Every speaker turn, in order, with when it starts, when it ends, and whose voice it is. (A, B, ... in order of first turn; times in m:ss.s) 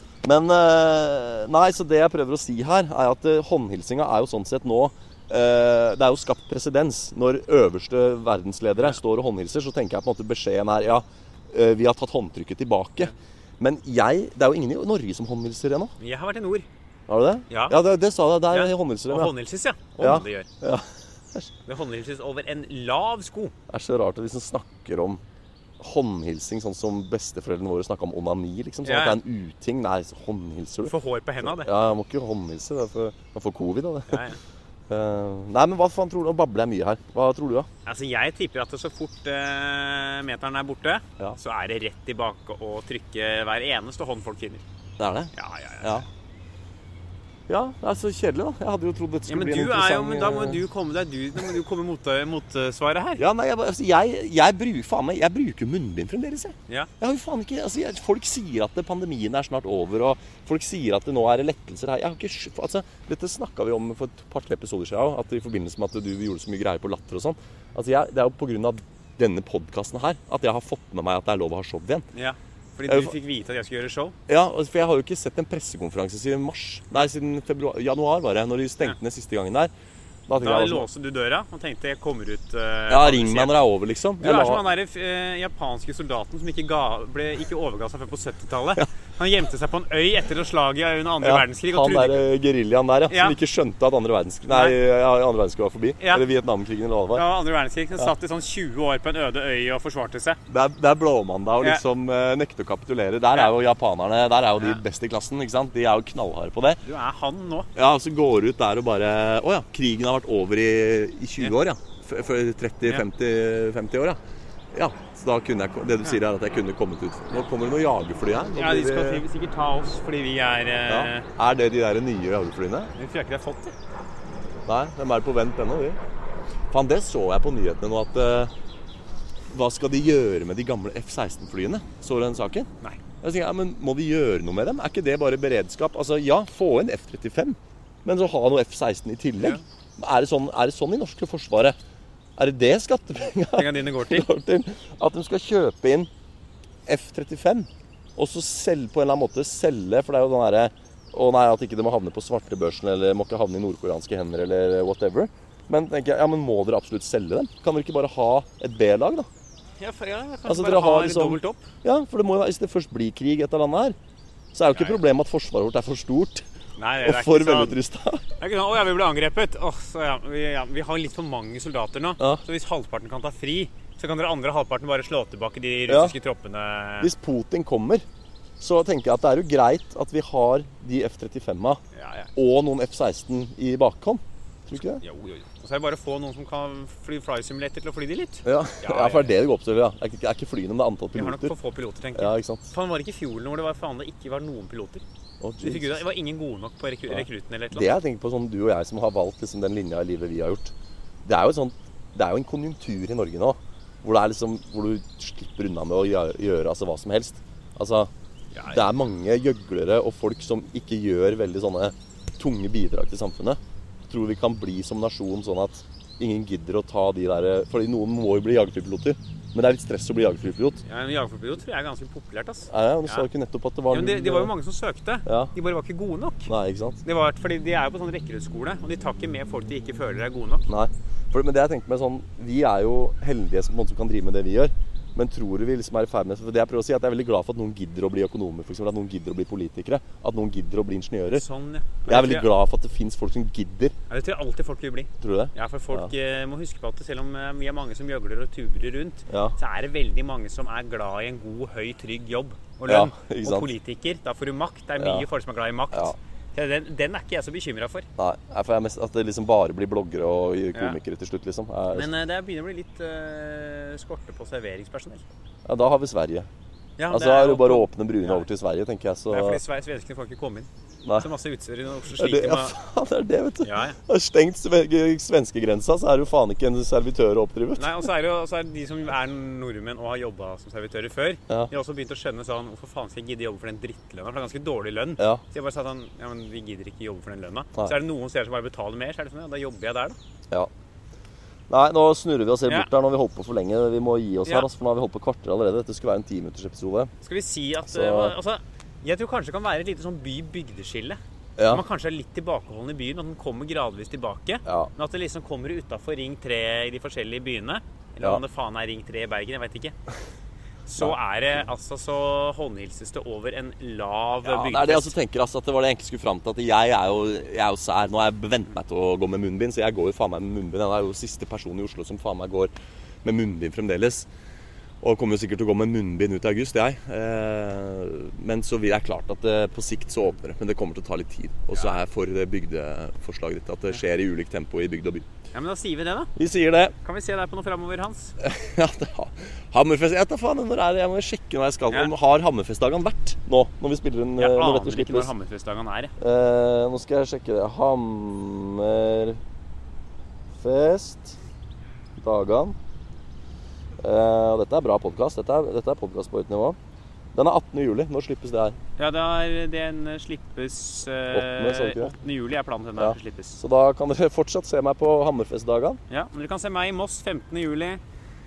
0:00.2-0:15.9 A
0:16.0-0:16.7 B
0:17.1-0:19.4 A
0:17.5-0:17.8 B
0:18.5-0:20.5 B
0:20.0-0:21.5 A
0:21.7-0:23.5 B
0:23.7-0:25.2 A
0:25.8-0:34.2 A
0:28.8-0:29.2 B
0:30.8-0:31.7 B
0:34.1-0:34.4 B
0:34.9-0:37.7 A
0:37.9-0:44.6 B
0:45.0-0:46.1 A
0:45.3-0:46.1 B
0:47.5-0:50.6 A
0:49.3-0:53.2 B
0:53.2-1:12.0 A
1:12.1-1:14.2 B
1:12.9-1:13.2 A
1:14.3-1:19.7 A
1:20.3-1:20.9 A
1:20.4-1:23.6 B
1:22.9-1:24.6 A
1:24.2-1:32.3 B
1:31.2-1:37.2 A
1:33.1-1:33.4 B
1:34.5-1:34.8 B
1:36.0-1:36.2 B
1:37.1-1:40.4 B
1:40.5-1:46.8 A
1:46.8-1:47.7 B
1:47.8-1:54.2 A
1:54.7-1:59.2 A
1:58.6-2:01.3 B
2:00.9-2:02.9 A
2:03.0-2:03.8 B
2:04.7-2:06.0 A
2:06.7-2:08.5 A
2:09.5-2:12.7 A
2:13.2-2:21.8 A
2:22.4-2:26.1 A
2:23.5-2:24.3 B
2:26.9-2:39.3 A
2:39.8-2:41.6 B
2:40.5-2:44.0 A
2:44.5-2:46.4 A
2:44.7-2:45.0 B
2:46.8-2:47.8 B
2:47.0-2:48.2 A
2:48.4-2:57.1 B
2:55.9-2:56.2 A
2:57.0-2:58.0 A
2:58.6-3:01.8 A
3:01.9-3:02.3 B
3:02.4-3:05.0 A
3:04.8-3:09.4 B
3:08.4-3:11.5 A
3:11.2-3:15.0 B
3:12.2-3:12.7 A
3:15.4-3:16.0 A
3:15.6-3:18.0 B
3:17.1-3:20.7 A
3:21.2-3:28.1 A
3:28.5-3:28.8 B
3:28.7-3:40.8 A
3:40.8-3:43.3 B
3:42.7-3:44.5 A
3:43.9-3:46.5 B
3:45.3-3:45.5 A
3:46.5-3:47.0 A
3:47.0-3:50.6 B
3:50.7-4:01.4 A
4:01.3-4:02.5 B
4:02.1-4:04.0 A
4:04.1-4:18.1 B
4:05.2-4:06.1 A
4:09.3-4:09.6 A
4:12.9-4:13.7 A
4:15.0-4:15.3 A
4:18.2-4:22.1 A
4:21.9-4:25.2 B
4:25.7-4:26.5 A
4:27.0-4:28.5 B
4:27.1-4:29.6 A
4:29.3-4:32.8 B
4:32.2-4:38.0 A
4:33.6-4:34.0 B
4:37.8-4:50.2 B
4:51.7-4:57.1 A
4:57.2-5:10.0 B
4:57.8-4:58.4 A
5:01.6-5:01.8 A
5:04.7-5:04.9 A
5:10.9-5:15.1 B
5:14.4-5:22.7 A
5:23.2-5:24.3 A
5:25.0-5:35.2 A
5:35.5-5:36.3 B
5:36.4-5:36.9 A
5:37.0-5:38.4 B
5:38.4-5:45.3 A
5:44.4-5:46.1 B
5:46.2-5:49.4 A
5:50.6-5:51.4 A
5:52.2-5:52.8 A
5:54.0-5:56.8 A
5:57.3-5:58.8 A
5:59.0-6:03.6 B
6:01.3-6:02.2 A
6:03.0-6:06.0 A
6:06.1-6:08.0 B